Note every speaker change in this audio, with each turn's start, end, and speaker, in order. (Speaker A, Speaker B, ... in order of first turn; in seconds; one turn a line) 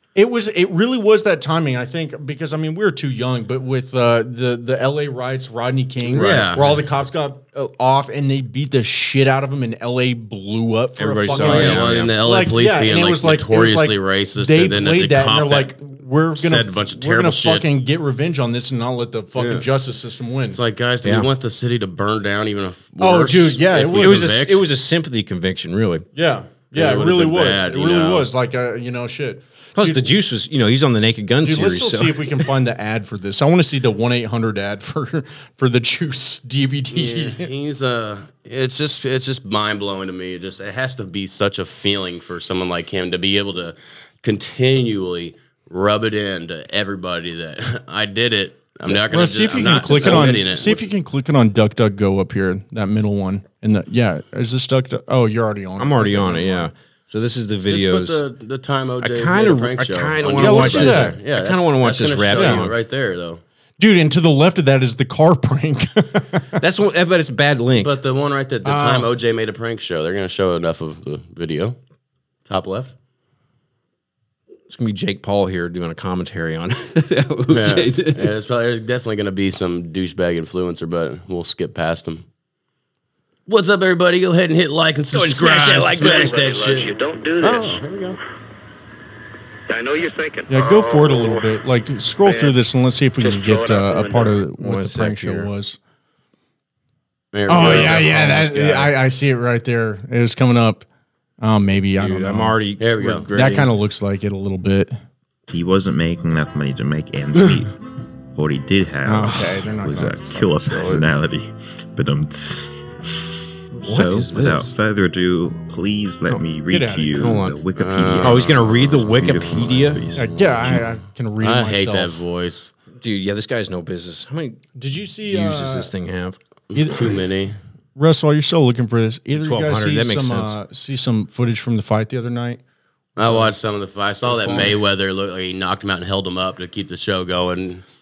Speaker A: 0.1-20.6
Speaker B: 6.1-6.8
Speaker C: 6.1-6.5
Speaker C: 11.0-12.1
Speaker B: 11.3-15.8
Speaker B: 16.3-17.6
Speaker B: 19.4-19.6
Speaker B: 20.5-24.6
Speaker C: 21.0-21.3
Speaker A: 23.0-24.3
Speaker C: 23.8-26.1
Speaker A: 26.1-30.1
Speaker B: 26.7-28.3
Speaker C: 29.8-32.5
Speaker A: 31.4-37.5
Speaker B: 36.9-50.9
Speaker A: 48.9-56.7
Speaker C: 49.9-50.3
Speaker C: 55.8-58.2
Speaker B: 57.7-63.4
Speaker C: 59.0-62.7
Speaker A: 60.4-61.1
Speaker A: 62.3-62.6
Speaker A: 63.8-66.6
Speaker C: 66.6-67.9
Speaker B: 67.8-71.8
Speaker A: 68.6-69.1
Speaker B: 72.5-72.9
Speaker C: 74.7-78.3
Speaker B: 77.5-82.2
Speaker B: 83.5-86.9
Speaker C: 85.1-86.4
Speaker D: 86.0-88.1
Speaker B: 87.4-88.2
Speaker D: 89.7-91.4
Speaker A: 90.5-95.8
Speaker D: 92.2-92.5
Speaker D: 93.2-94.4
Speaker C: 94.6-95.5
Speaker B: 97.3-98.1
Speaker A: 97.5-100.8
Speaker C: 97.5-99.0
Speaker A: 101.4-102.6
Speaker C: 102.0-103.7
Speaker B: 102.8-103.2
Speaker A: 103.3-105.0
Speaker E: 105.5-107.7
Speaker E: 108.3-112.9
Speaker A: 109.0-111.1
Speaker C: 113.7-114.7
Speaker E: 113.8-120.8
Speaker A: 116.7-117.1
Speaker C: 117.2-117.6
Speaker B: 117.8-119.1
Speaker C: 118.2-120.0
Speaker A: 120.1-122.2
Speaker B: 120.2-120.9
Speaker B: 121.4-122.7
Speaker C: 123.0-124.6
Speaker A: 124.8-125.9
Speaker C: 125.2-126.4
Speaker B: 126.7-127.5
Speaker A: 126.7-127.2
Speaker A: 128.0-132.6
Speaker C: 129.3-130.6
Speaker B: 133.2-137.8
Speaker A: 133.2-133.5
Speaker A: 134.3-134.7